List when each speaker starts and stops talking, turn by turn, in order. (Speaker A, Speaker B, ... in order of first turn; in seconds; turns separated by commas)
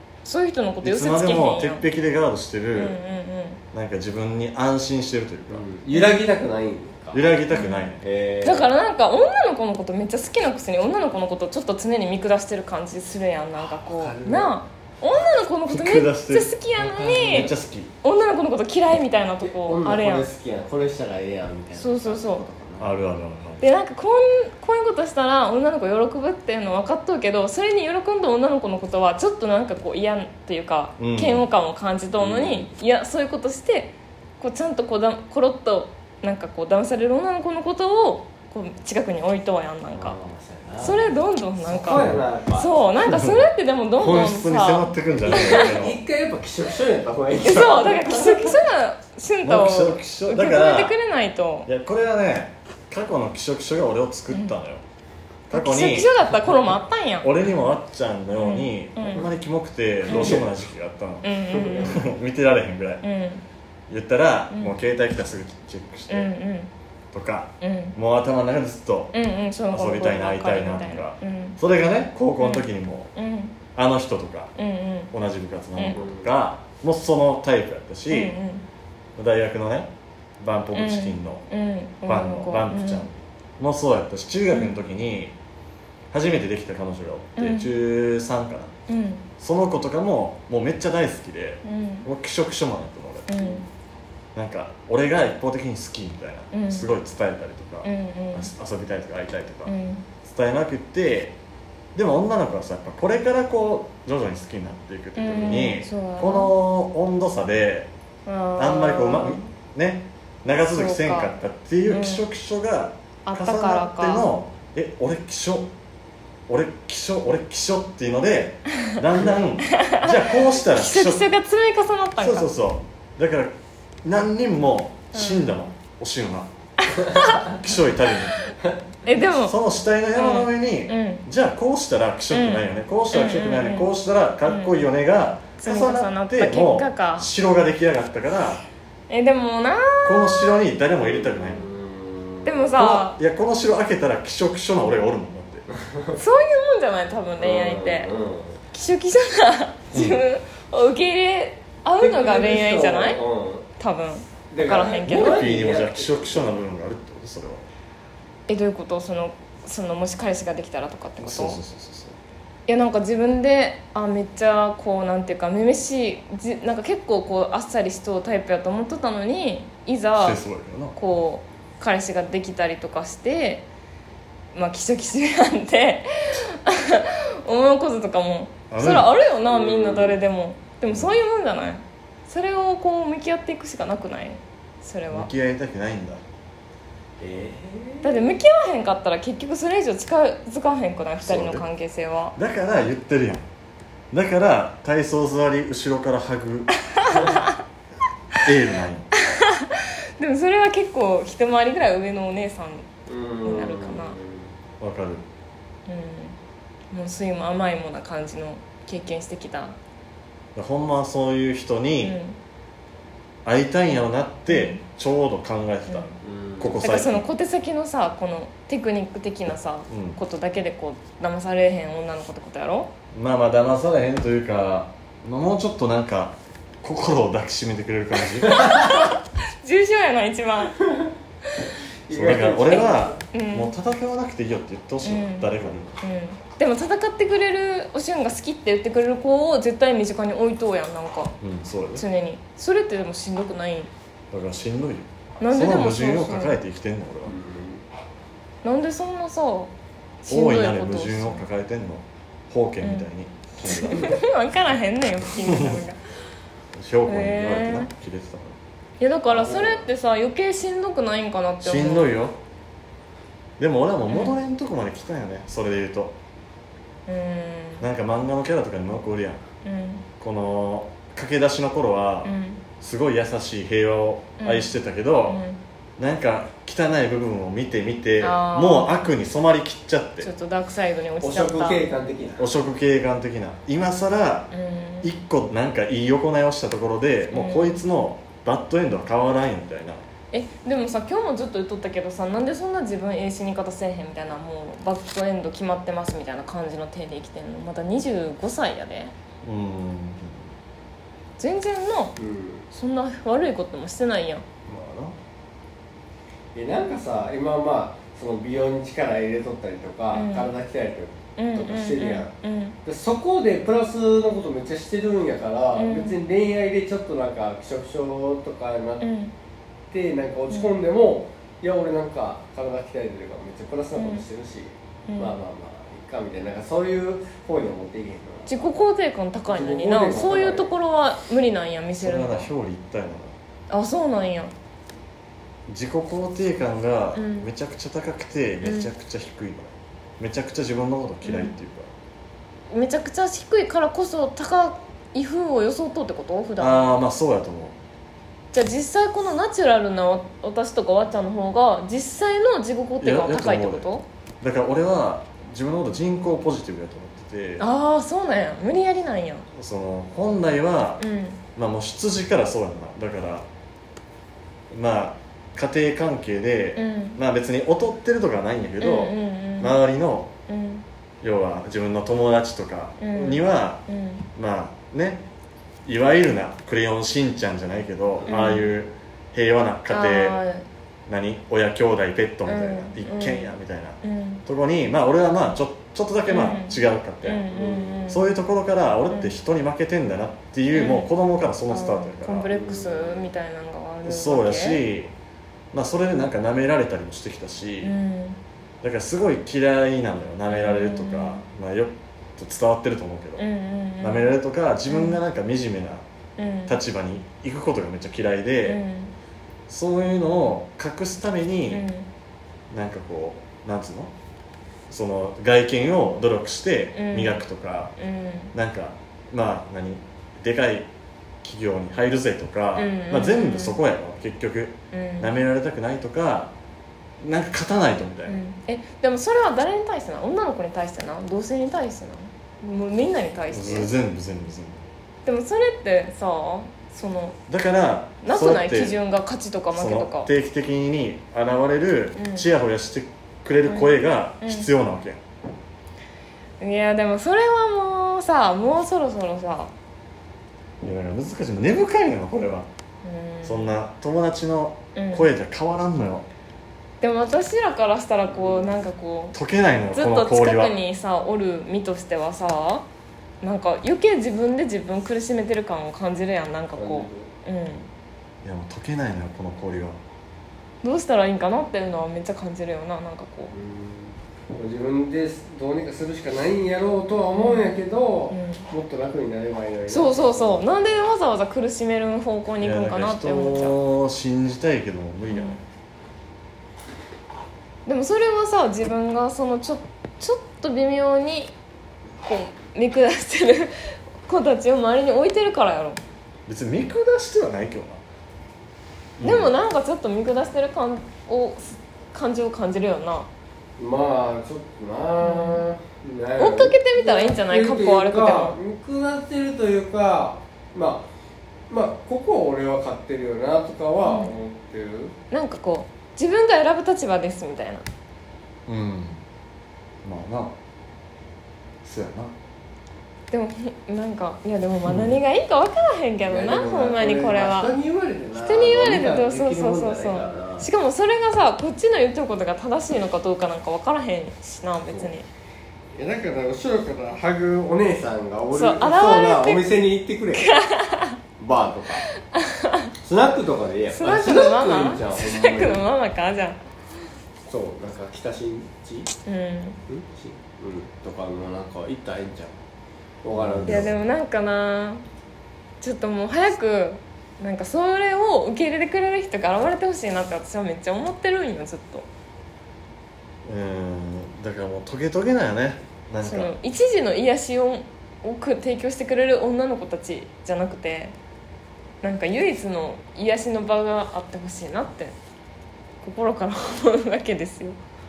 Speaker A: 0.2-1.9, Speaker B: 0.8-3.0, Speaker A: 2.8-3.6, Speaker B: 3.7-5.7, Speaker C: 5.5-7.3, Speaker A: 5.9-6.3, Speaker B: 7.1-8.0, Speaker A: 7.5-7.9, Speaker C: 8.0-8.7, Speaker A: 8.4-17.5, Speaker C: 13.6-14.6, Speaker B: 15.7-16.6, Speaker C: 16.8-17.5, Speaker B: 17.3-17.9, Speaker A: 18.0-20.3, Speaker C: 19.4-22.9, Speaker A: 21.8-22.4, Speaker B: 22.8-23.7, Speaker A: 23.6-40.2, Speaker B: 31.0-31.4, Speaker C: 32.2-32.7, Speaker C: 39.9-42.9, Speaker A: 40.8-45.8, Speaker B: 41.9-42.2, Speaker B: 43.0-43.5, Speaker B: 44.0-46.0, Speaker C: 45.2-48.6, Speaker A: 47.4-51.7, Speaker B: 49.4-51.0, Speaker B: 51.7-54.8, Speaker A: 54.3-54.6, Speaker B: 55.5-56.1, Speaker A: 55.5-57.4, Speaker B: 57.2-63.0, Speaker A: 58.4-59.3, Speaker A: 60.1-60.4, Speaker C: 60.1-60.5, Speaker A: 61.2-62.0, Speaker C: 61.5-62.0, Speaker A: 63.0-63.5, Speaker B: 63.9-66.3, Speaker A: 64.5-64.8, Speaker A: 66.1-66.7, Speaker B: 67.1-69.2, Speaker A: 67.6-68.0, Speaker A: 69.1-71.6, Speaker B: 69.7-73.1, Speaker A: 72.4-73.6, Speaker B: 73.8-74.5, Speaker A: 74.6-75.1, Speaker B: 75.1-78.3, Speaker C: 75.9-76.3, Speaker A: 78.1-78.7, Speaker B: 79.2-81.5, Speaker A: 80.7-83.1, Speaker B: 82.1-85.3, Speaker B: 86.1-88.7, Speaker A: 87.4-87.7, Speaker A: 88.9-89.2, Speaker B: 89.4-93.4, Speaker A: 91.6-92.1, Speaker A: 93.3-93.7, Speaker B: 94.3-101.4, Speaker A: 96.5-96.9, Speaker A: 97.8-98.5, Speaker A: 99.7-100.1, Speaker B: 102.0-107.9, Speaker A: 105.2-106.5, Speaker A: 108.3-109.5, Speaker B: 108.6-115.7, Speaker A: 110.7-111.3, Speaker A: 111.9-112.2, Speaker A: 113.2-114.3, Speaker B: 116.5-121.3, Speaker A: 119.7-122.5, Speaker B: 122.2-126.5, Speaker A: 125.1-125.5, Speaker A: 126.9-127.5, Speaker B: 127.2-128.6, Speaker A: 129.1-129.6, Speaker B: 129.3-138.6, Speaker A: 130.1-131.3, Speaker A: 132.3-133.9, Speaker A: 134.5-134.8, Speaker A: 135.6-137.3, Speaker A: 139.1-140.6, Speaker B: 140.1-141.7, Speaker C: 141.0-142.7, Speaker A: 142.4-143.2, Speaker B: 142.8-145.7, Speaker C: 145.7-146.2, Speaker A: 146.2-148.1, Speaker C: 147.4-148.6, Speaker A: 148.7-153.2, Speaker B: 149.9-150.2, Speaker C: 152.0-153.7, Speaker A: 153.8-155.5, Speaker C: 154.5-156.6, Speaker B: 155.1-157.7, Speaker A: 158.5-161.6, Speaker B: 161.2-162.2, Speaker A: 162.7-170.4, Speaker B: 170.2-171.0, Speaker A: 170.9-173.7, Speaker A: 174.5-185.3, Speaker B: 178.7-179.1, Speaker C: 179.4-180.2, Speaker B: 180.9-181.2, Speaker B: 185.1-186.2, Speaker C: 187.2-188.3, Speaker A: 188.0-192.4, Speaker B: 191.2-191.7, Speaker B: 192.4-193.4, Speaker B: 194.1-197.2, Speaker A: 196.9-197.6, Speaker B: 198.4-199.1, Speaker A: 199.3-202.9, Speaker C: 203.1-204.6, Speaker A: 203.4-204.2, Speaker B: 204.8-205.2, Speaker A: 205.9-206.4, Speaker A: 206.9-209.8, Speaker B: 210.6-212.2, Speaker A: 212.0-212.4, Speaker B: 213.4-217.2, Speaker A: 214.5-214.8, Speaker A: 215.9-216.2, Speaker C: 216.2-216.8, Speaker A: 216.8-222.9, Speaker B: 219.9-220.2, Speaker B: 223.1-228.9, Speaker A: 228.5-230.8, Speaker C: 230.8-231.1, Speaker C: 232.1-233.2, Speaker B: 232.1-235.9, Speaker A: 232.7-233.7, Speaker A: 235.0-241.4, Speaker B: 241.4-242.1, Speaker A: 241.9-243.9, Speaker B: 244.3-247.3, Speaker A: 245.4-246.6, Speaker C: 247.2-247.8, Speaker A: 248.6-249.7, Speaker A: 250.2-251.4, Speaker B: 250.3-254.2, Speaker A: 252.8-253.1, Speaker A: 253.6-256.0, Speaker B: 255.3-255.8, Speaker B: 256.7-258.6, Speaker A: 257.1-257.9, Speaker A: 259.0-262.1, Speaker C: 259.3-259.9, Speaker B: 261.6-262.4, Speaker B: 263.6-266.2, Speaker A: 264.1-264.4, Speaker A: 267.1-267.9, Speaker B: 267.8-269.4, Speaker A: 269.6-270.1, Speaker B: 270.2-275.4, Speaker A: 272.2-272.6, Speaker A: 274.4-274.7, Speaker A: 275.3-275.6, Speaker B: 276.0-280.3, Speaker A: 278.2-279.0, Speaker A: 280.2-281.9, Speaker C: 281.2-282.5, Speaker B: 282.4-284.5, Speaker A: 284.5-285.1, Speaker B: 285.0-290.0, Speaker A: 287.3-287.8, Speaker A: 290.3-299.1, Speaker B: 299.4-300.5, Speaker A: 301.4-302.1, Speaker C: 302.2-302.7, Speaker A: 302.7-304.4, Speaker B: 304.7-305.1, Speaker C: 306.5-312.3, Speaker A: 310.1-310.5, Speaker A: 311.4-312.8, Speaker C: 312.8-319.1, Speaker A: 315.8-316.2, Speaker A: 319.0-319.3, Speaker C: 319.9-328.8, Speaker A: 324.0-324.2, Speaker A: 325.1-325.4, Speaker A: 328.5-332.5, Speaker C: 329.5-330.7, Speaker B: 332.0-333.4, Speaker A: 333.7-334.5, Speaker B: 335.7-341.9, Speaker A: 337.1-337.5, Speaker A: 338.6-338.9, Speaker A: 341.2-341.5, Speaker A: 342.7-347.0, Speaker B: 346.6-347.8, Speaker A: 348.5-354.1, Speaker B: 353.0-353.9, Speaker B: 354.4-357.6, Speaker A: 357.6-359.5, Speaker B: 359.6-361.0, Speaker A: 361.0-361.4, Speaker B: 361.6-363.5, Speaker B: 364.7-370.3, Speaker A: 366.8-367.2, Speaker A: 368.8-369.8, Speaker A: 370.5-370.9, Speaker B: 371.2-373.8, Speaker A: 373.0-374.3, Speaker B: 374.4-375.2, Speaker B: 375.9-380.4, Speaker A: 378.3-378.7, Speaker A: 379.9-380.7, Speaker B: 381.1-387.5, Speaker A: 382.5-383.5, Speaker A: 384.0-384.4, Speaker A: 386.3-388.2, Speaker C: 387.5-388.1, Speaker B: 388.1-392.5, Speaker A: 390.7-391.1, Speaker A: 391.7-394.8, Speaker C: 392.5-393.3, Speaker B: 394.1-395.1, Speaker B: 395.7-397.9, Speaker A: 397.8-398.4, Speaker B: 398.8-403.4, Speaker A: 400.5-401.4, Speaker A: 403.4-404.3, Speaker B: 404.0-406.1, Speaker A: 404.9-405.2, Speaker A: 406.4-406.8, Speaker B: 406.7-408.8, Speaker A: 408.6-409.1, Speaker B: 409.7-411.9, Speaker A: 411.7-412.1, Speaker B: 412.7-414.1, Speaker B: 414.9-417.9, Speaker A: 416.9-417.4, Speaker A: 418.0-418.5, Speaker B: 418.5-420.9, Speaker B: 421.4-426.5, Speaker A: 422.8-423.8, Speaker A: 424.9-425.3, Speaker B: 427.2-428.4, Speaker A: 428.3-433.9, Speaker B: 433.5-434.8, Speaker A: 435.3-437.4, Speaker B: 437.5-439.0, Speaker A: 438.2-440.3, Speaker B: 439.7-445.2, Speaker A: 442.2-442.5, Speaker A: 443.7-444.7, Speaker A: 446.6-449.7, Speaker B: 450.8-452.7, Speaker A: 453.0-453.7, Speaker B: 453.4-456.3, Speaker A: 454.9-455.3, Speaker A: 457.0-459.4, Speaker C: 458.3-458.8, Speaker B: 459.3-460.8, Speaker A: 459.9-462.9, Speaker A: 463.4-467.9, Speaker C: 466.8-467.3, Speaker B: 468.4-470.0, Speaker A: 470.8-473.5, Speaker C: 473.5-481.1, Speaker A: 477.4-478.6, Speaker A: 479.9-483.8, Speaker B: 482.6-485.6, Speaker A: 485.3-485.6, Speaker A: 487.9-491.5, Speaker A: 492.2-496.0, Speaker B: 496.5-498.0, Speaker B: 499.2-499.5, Speaker A: 499.2-503.3, Speaker C: 503.8-511.1, Speaker A: 505.2-505.6, Speaker A: 506.4-508.6, Speaker C: 511.7-515.1, Speaker A: 514.0-514.3, Speaker A: 515.3-517.9, Speaker B: 518.7-519.2, Speaker B: 520.0-520.5, Speaker B: 521.8-522.3, Speaker A: 523.3-527.8, Speaker B: 524.9-525.2, Speaker C: 526.3-530.7, Speaker A: 528.3-535.3, Speaker C: 536.0-540.5, Speaker A: 538.5-539.7, Speaker A: 540.4-541.2, Speaker C: 541.4-542.1, Speaker A: 542.1-542.9, Speaker C: 543.0-545.8, Speaker A: 543.9-546.6, Speaker C: 547.5-549.1, Speaker A: 549.3-549.8, Speaker C: 549.9-552.6, Speaker C: 553.2-553.9, Speaker B: 553.4-553.9, Speaker A: 553.7-555.0, Speaker A: 555.8-562.1, Speaker B: 563.5-566.5, Speaker A: 566.2-571.1, Speaker A: 572.0-575.1, Speaker A: 576.0-577.8